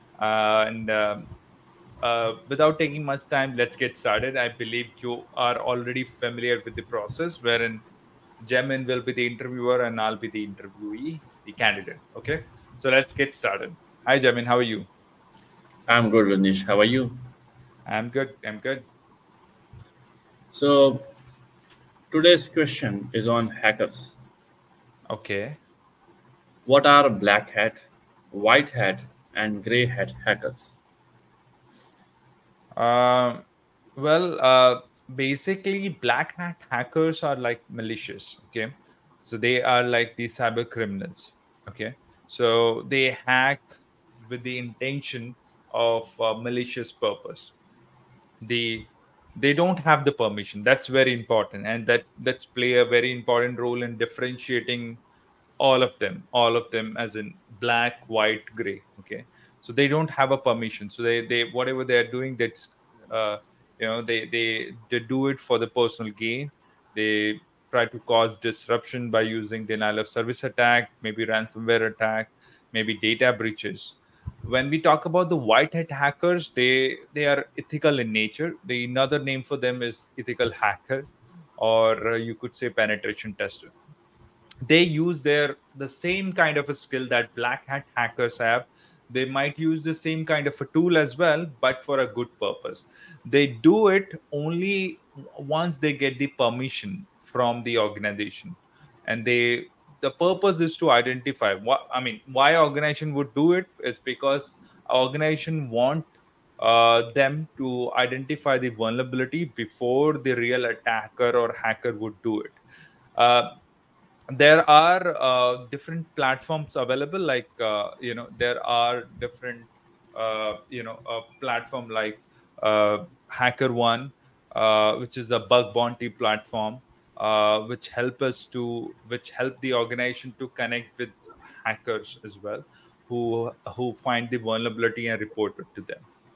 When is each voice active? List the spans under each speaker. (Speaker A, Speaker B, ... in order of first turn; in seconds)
Speaker A: 0.2-1.3, 2.0-7.8, 8.4-14.9, 17.9-18.8, 25.1-25.6, 32.8-33.4, 34.0-38.7, 39.2-47.5, 48.4-55.0, 55.6-83.7, 84.6-112.6, 113.2-113.5, 114.3-136.0
Speaker B: 15.9-17.2, 20.5-21.1, 22.1-24.1, 26.6-30.8